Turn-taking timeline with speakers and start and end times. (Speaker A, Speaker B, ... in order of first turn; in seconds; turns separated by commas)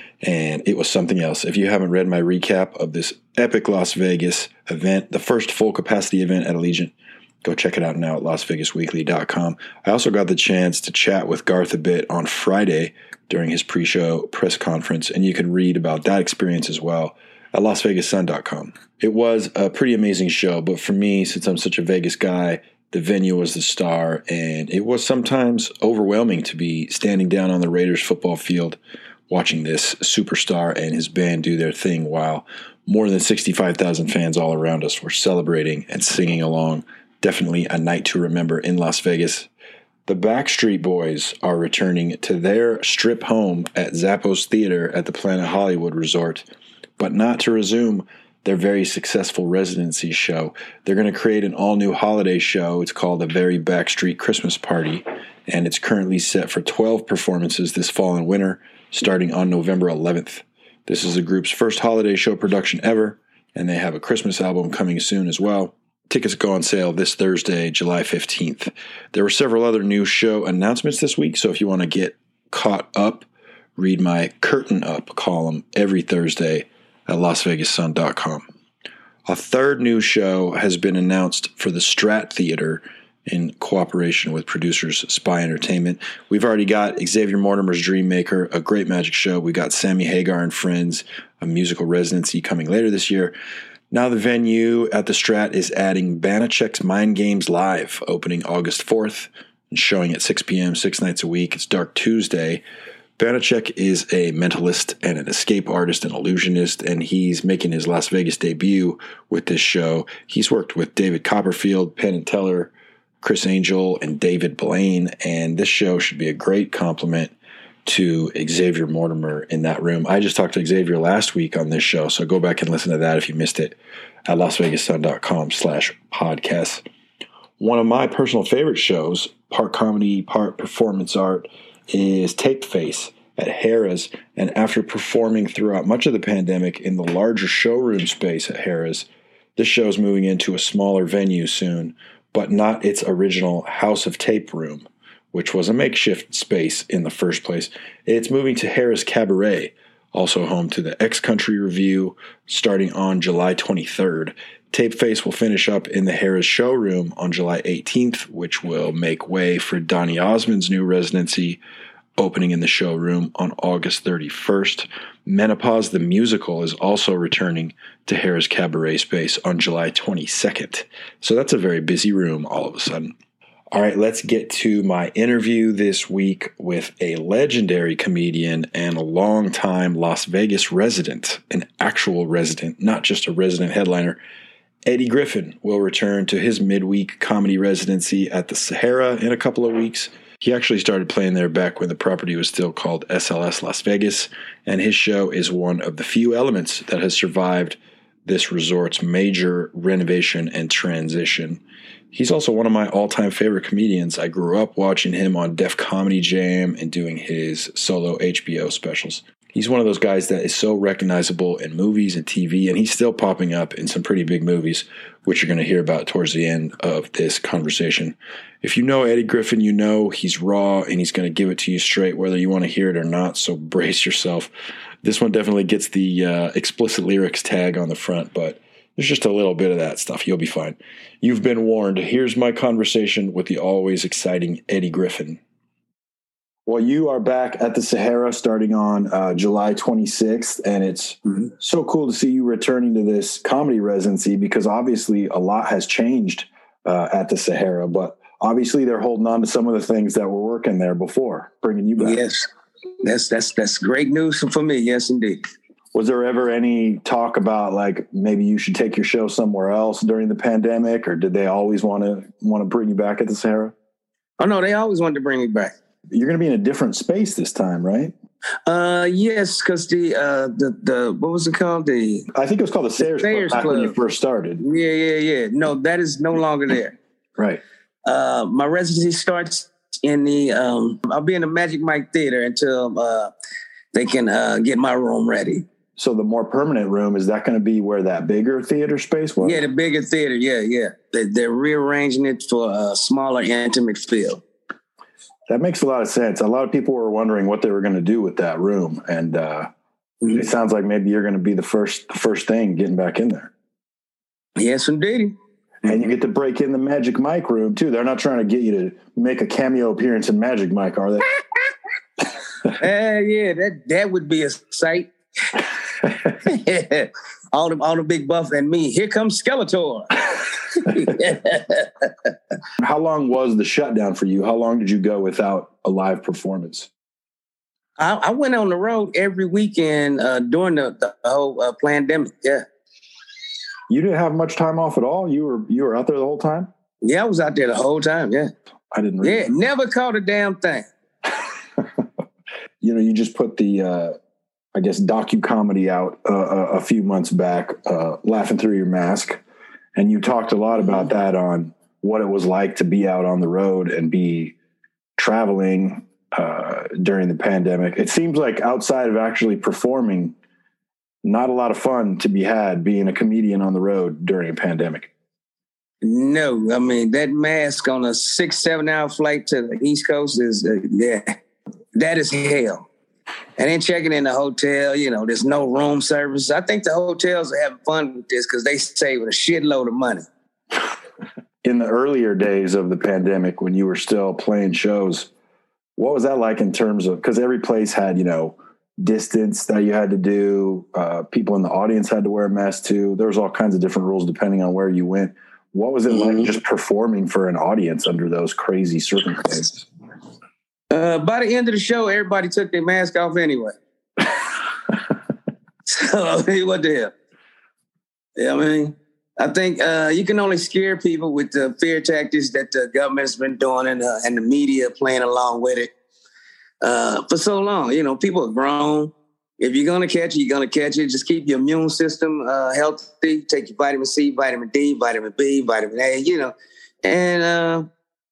Speaker A: 0.2-39.5, Speaker A: 40.1-46.5, Speaker A: 47.0-78.5, Speaker A: 79.3-93.3, Speaker A: 93.9-102.6, Speaker A: 103.2-117.3, Speaker A: 117.8-126.8, Speaker A: 127.6-161.6, Speaker A: 162.2-173.1, Speaker A: 173.7-184.2, Speaker A: 184.9-201.6, Speaker A: 202.1-224.5, Speaker A: 225.0-235.4, Speaker A: 236.7-252.2, Speaker B: 252.0-252.5, Speaker B: 253.0-255.4, Speaker A: 255.9-263.7, Speaker B: 264.4-265.7, Speaker A: 266.1-268.1, Speaker B: 268.7-272.3, Speaker A: 272.3-274.6, Speaker B: 273.0-273.9, Speaker B: 274.6-277.0, Speaker B: 278.1-283.3, Speaker B: 283.9-285.6, Speaker A: 286.0-289.6, Speaker B: 289.4-294.4, Speaker A: 295.5-299.7, Speaker A: 300.3-303.5, Speaker B: 304.6-305.3, Speaker A: 305.8-311.4, Speaker B: 312.8-315.6, Speaker B: 316.3-322.3, Speaker A: 322.8-326.9, Speaker B: 328.0-332.6, Speaker A: 333.9-336.7, Speaker B: 337.0-338.5, Speaker A: 338.9-339.5, Speaker B: 339.2-340.9, Speaker A: 342.8-344.1, Speaker A: 344.7-349.4, Speaker A: 349.9-354.5, Speaker A: 355.2-360.3, Speaker A: 361.2-365.1, Speaker B: 366.0-371.3, Speaker B: 371.9-372.9, Speaker B: 373.6-380.3, Speaker A: 381.6-385.3, Speaker A: 386.0-399.8, Speaker B: 396.1-396.5, Speaker B: 400.9-403.8, Speaker B: 405.9-407.1, Speaker B: 408.4-415.9, Speaker B: 416.8-427.9